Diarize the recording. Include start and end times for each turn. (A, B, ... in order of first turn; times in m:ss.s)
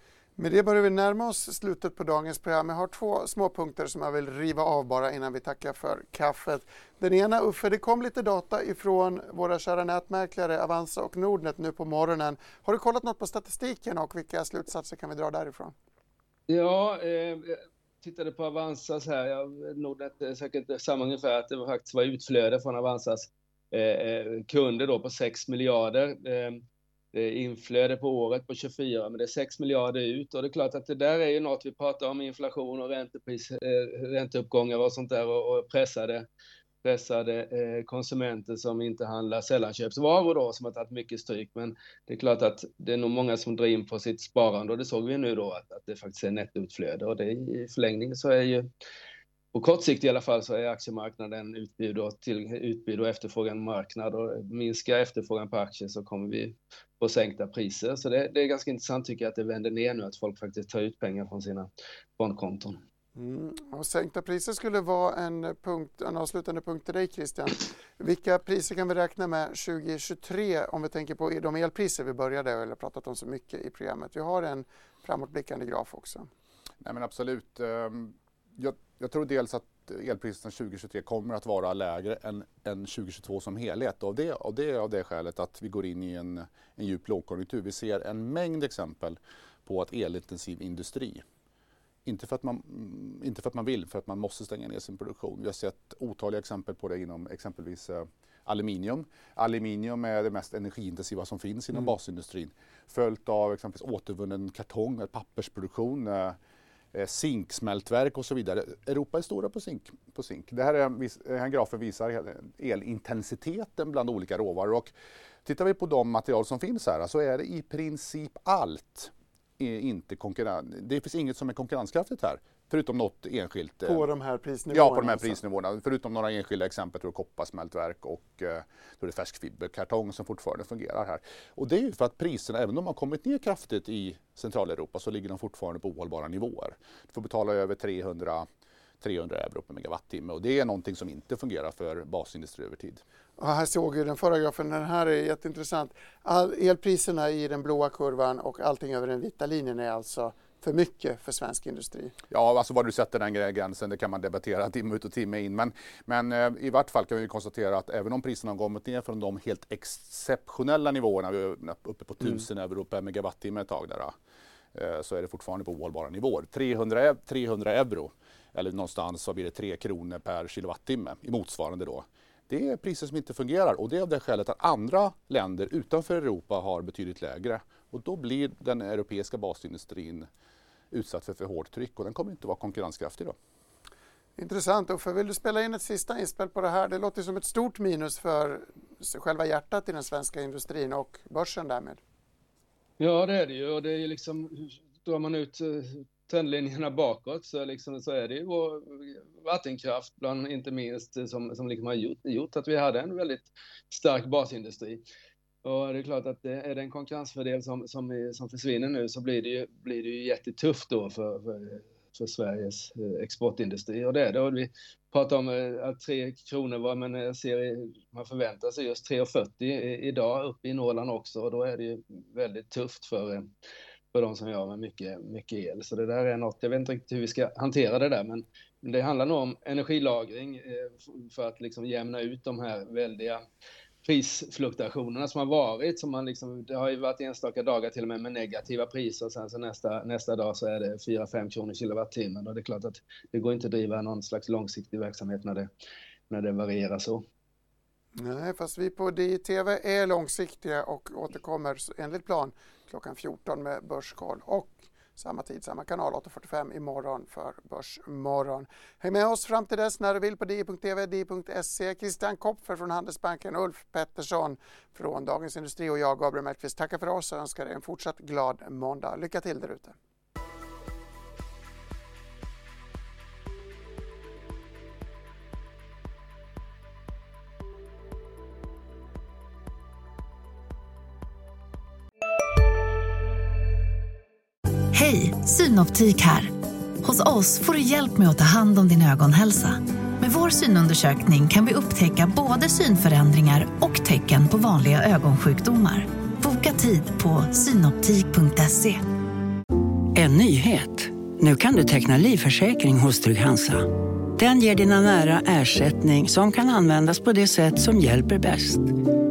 0:00.4-0:15.7 A
0:16.5-0:36.3 B
0:36.8-0:48.7 B
0:49.5-1:02.8 B
1:03.2-1:16.3 A
1:16.8-1:31.2 C
1:32.0-1:46.4 C
1:46.9-1:54.9 C
1:55.4-2:04.0 C
2:03.9-2:05.4 A
2:04.7-2:18.5 C
2:19.0-2:23.0 C
2:23.4-2:32.1 A
2:32.3-2:44.1 C
2:44.7-3:00.3 C
3:00.9-3:03.4 C
3:04.4-3:12.0 A
3:13.0-3:25.0 B
3:25.6-3:43.5 B
3:44.1-3:53.4 B
3:54.0-4:05.7 B
4:06.3-4:07.2 B
4:08.2-4:29.9 A
4:44.9-4:59.0 D
5:00.1-5:08.9 E